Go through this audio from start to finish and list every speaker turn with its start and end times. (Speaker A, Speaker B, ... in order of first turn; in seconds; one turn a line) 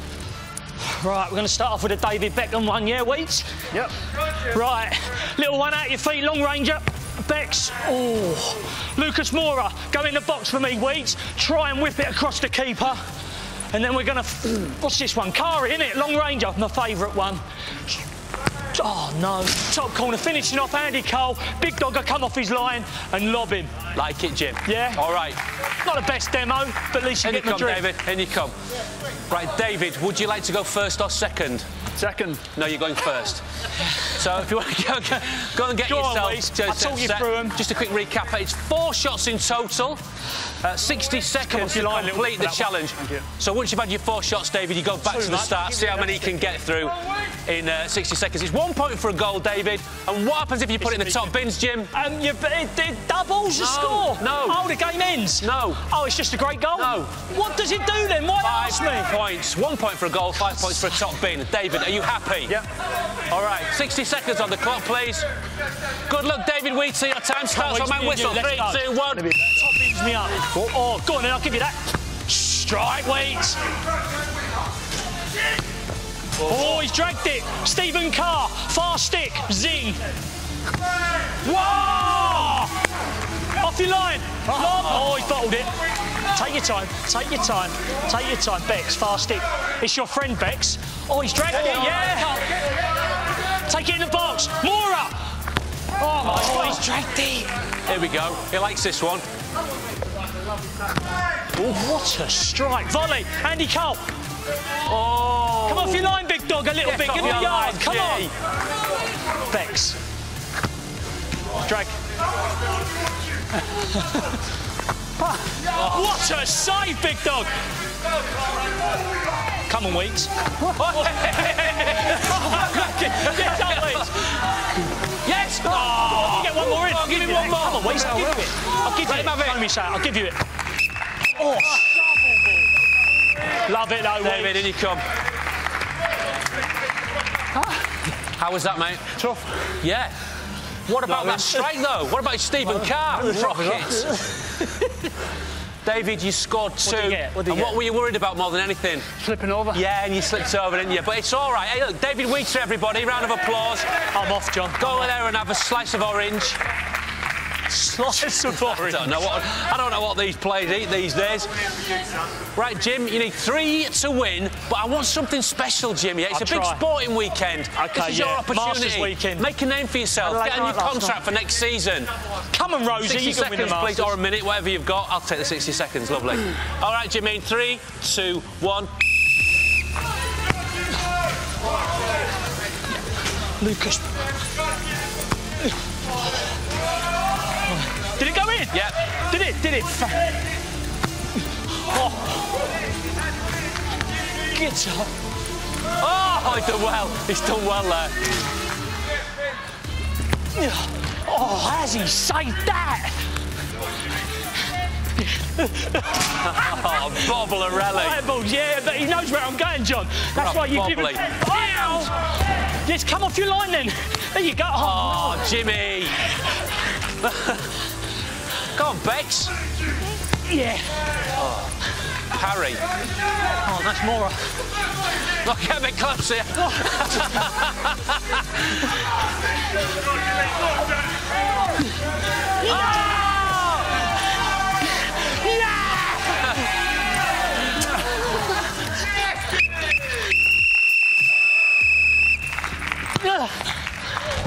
Speaker A: 0.9-3.6
Speaker A: 4.5-13.0
Speaker A: 13.7-17.4
Speaker A: 18.8-23.7
Speaker B: 23.9-25.4
Speaker A: 24.7-25.0
Speaker A: 25.8-27.9
Speaker B: 27.2-28.6
Speaker B: 29.3-31.7
Speaker C: 32.0-32.4
Speaker B: 32.5-33.4
Speaker B: 34.1-40.0
Speaker A: 35.8-37.6
Speaker B: 40.6-51.9
Speaker A: 41.4-43.2
Speaker A: 45.1-46.2
Speaker A: 50.8-51.3
Speaker A: 51.9-59.1
Speaker B: 53.6-54.6
Speaker B: 55.4-55.8
Speaker B: 56.8-57.1
Speaker B: 58.4-62.6
Speaker A: 60.4-61.0
Speaker B: 63.3-65.3
Speaker B: 66.1-69.3
Speaker A: 67.5-69.0
Speaker A: 69.5-73.6
Speaker A: 76.4-80.0
Speaker B: 76.5-76.8
Speaker B: 81.5-82.7
Speaker A: 82.0-82.6
Speaker A: 83.6-85.7
Speaker B: 84.5-85.1
Speaker A: 86.3-92.4
Speaker B: 91.5-92.3
Speaker A: 93.7-95.2
Speaker A: 96.0-97.5
Speaker B: 96.2-96.8
Speaker B: 97.9-99.2
Speaker A: 101.6-104.0
Speaker B: 104.9-106.1
Speaker A: 105.7-108.3
Speaker B: 106.8-108.3
Speaker A: 109.5-110.0
Speaker A: 111.7-112.0
Speaker B: 115.7-116.1
Speaker A: 115.7-117.5
Speaker A: 119.7-121.2
Speaker B: 120.7-124.4
Speaker A: 121.7-124.3
Speaker B: 125.2-129.6
Speaker A: 125.6-130.4
Speaker A: 131.3-132.0
Speaker A: 133.7-134.7
Speaker B: 134.2-135.0
Speaker B: 138.4-139.1
Speaker C: 139.2-139.7
Speaker B: 139.8-140.1
Speaker B: 140.9-144.2
Speaker A: 140.9-141.6
Speaker C: 143.1-144.0
Speaker B: 145.8-149.1
Speaker A: 146.8-147.8
Speaker C: 149.2-149.8
Speaker B: 149.7-153.9
Speaker A: 154.1-155.1
Speaker B: 154.8-156.6
Speaker A: 157.7-159.2
Speaker B: 158.0-161.5
Speaker B: 162.6-172.1
Speaker A: 166.3-166.8
Speaker A: 167.8-169.5
Speaker A: 170.2-171.2
Speaker A: 172.5-174.2
Speaker B: 173.0-178.9
Speaker A: 183.6-184.0
Speaker A: 187.7-190.3
Speaker B: 188.7-189.0
Speaker A: 191.8-192.4
Speaker A: 194.5-195.1
Speaker B: 196.0-198.2
Speaker A: 200.6-203.2
Speaker A: 205.2-212.1
Speaker B: 206.2-208.2
Speaker B: 210.3-212.1
Speaker A: 212.8-215.6
Speaker B: 214.8-216.2
Speaker B: 217.2-217.7
Speaker B: 218.7-219.5
Speaker A: 220.5-220.9
Speaker B: 221.4-221.7
Speaker B: 222.3-222.8
Speaker A: 223.6-224.5
Speaker B: 225.3-228.8
Speaker B: 232.7-233.8
Speaker A: 232.7-233.3
Speaker A: 235.3-236.2
Speaker A: 243.3-243.6